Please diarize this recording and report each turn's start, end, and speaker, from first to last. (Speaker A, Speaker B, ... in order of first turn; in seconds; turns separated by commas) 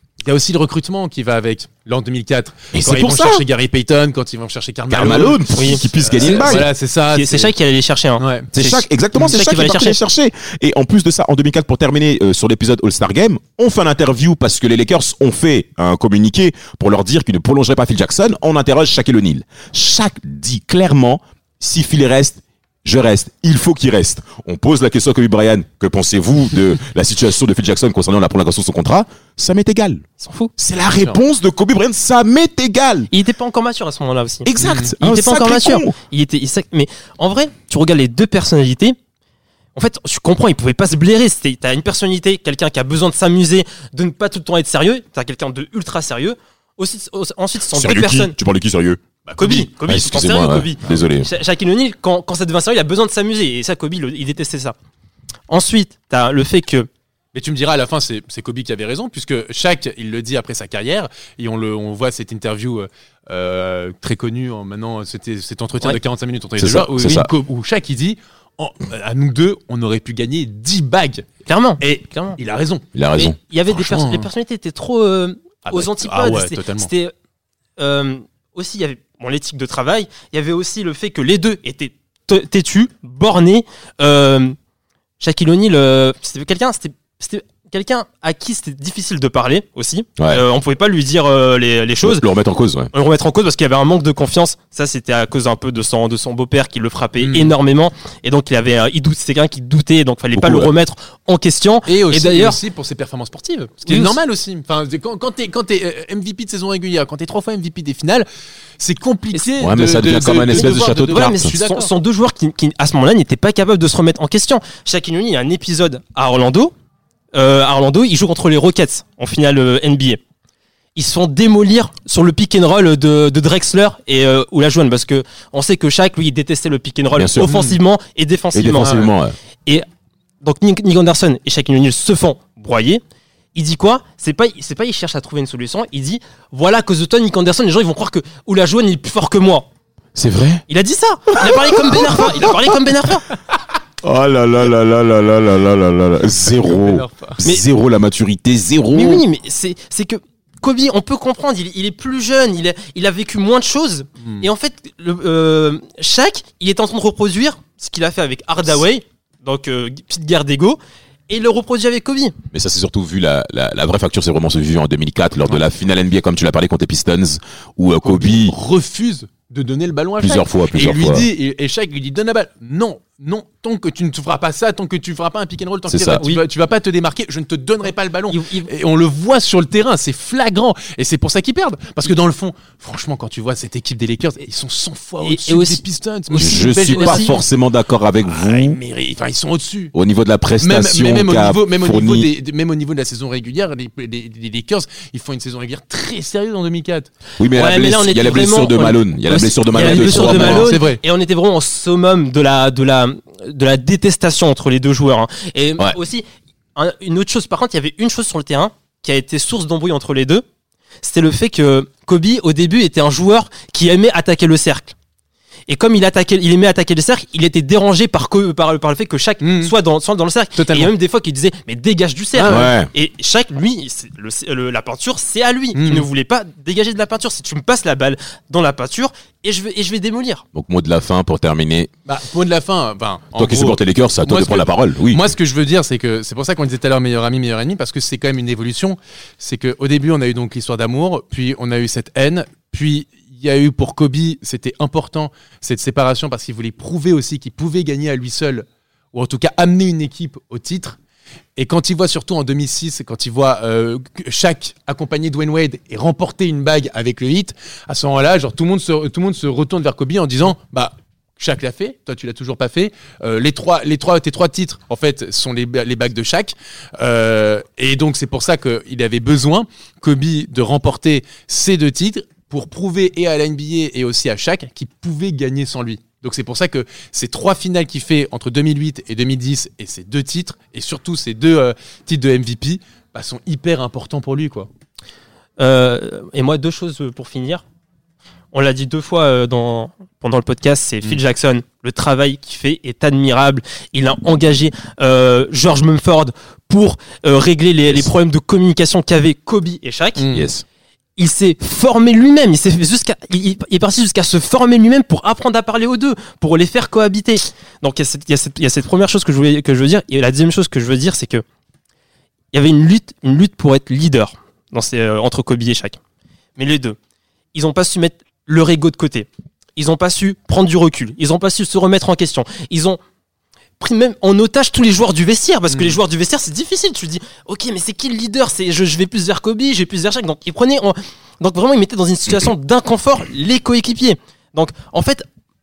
Speaker A: 0.2-7.5, Speaker B: 2.7-3.4, Speaker B: 4.9-6.7, Speaker C: 5.5-10.0, Speaker A: 8.2-8.5, Speaker B: 8.5-30.1, Speaker C: 30.2-30.5, Speaker B: 30.6-33.1, Speaker A: 30.9-31.2, Speaker C: 33.1-39.0, Speaker B: 34.5-35.9, Speaker A: 34.6-34.9, Speaker C: 39.7-48.3, Speaker B: 47.7-49.0, Speaker A: 49.2-49.7, Speaker C: 49.4-54.7, Speaker B: 49.7-51.3, Speaker C: 55.5-56.9, Speaker A: 57.3-71.2, Speaker B: 66.6-67.3, Speaker C: 71.4-72.4, Speaker A: 71.8-72.8, Speaker B: 72.9-73.4, Speaker C: 73.1-77.1, Speaker A: 73.7-74.3, Speaker A: 75.7-76.9, Speaker C: 77.8-84.5, Speaker C: 85.2-92.2, Speaker B: 90.2-90.4, Speaker B: 92.0-92.9, Speaker C: 92.9-102.6, Speaker A: 97.2-97.5, Speaker B: 100.3-100.7, Speaker A: 101.8-108.2, Speaker C: 103.9-104.2, Speaker A: 108.8-111.9, Speaker B: 109.6-111.6, Speaker C: 110.5-116.7, Speaker C: 117.3-120.2, Speaker C: 121.0-129.0, Speaker B: 127.1-127.5, Speaker A: 127.4-127.8, Speaker B: 128.5-129.3, Speaker A: 128.8-129.1, Speaker C: 130.4-133.0, Speaker C: 133.5-139.7, Speaker B: 140.2-140.6, Speaker C: 140.7-143.3, Speaker B: 141.3-142.5, Speaker B: 144.0-149.2, Speaker A: 146.6-147.4, Speaker C: 148.9-160.8, Speaker C: 161.3-162.4, Speaker B: 162.5-168.6, Speaker A: 168.0-187.4, Speaker B: 170.2-171.3, Speaker B: 175.9-176.2, Speaker C: 178.3-178.7, Speaker C: 185.2-187.4, Speaker B: 186.3-188.8, Speaker A: 188.2-189.9, Speaker B: 189.9-192.3, Speaker A: 190.6-197.1, Speaker B: 197.4-200.7, Speaker C: 197.5-210.4, Speaker A: 199.7-201.0, Speaker C: 211.0-214.9, Speaker C: 215.7-230.4, Speaker A: 219.4-219.7, Speaker A: 220.6-220.9, Speaker A: 222.4-222.7, Speaker B: 222.4-222.9, Speaker A: 225.7-226.1, Speaker B: 230.5-231.9, Speaker A: 232.1-251.0, Speaker B: 233.3-235.2, Speaker A: 251.6-284.7, Speaker C: 285.6-287.6, Speaker C: 288.5-300.2, Speaker A: 300.2-300.5, Speaker B: 300.3-300.6, Speaker C: 301.2-311.4, Speaker C: 312.5-316.0, Speaker C: 316.6-317.0, Speaker C: 317.5-323.0, Speaker C: 323.8-335.2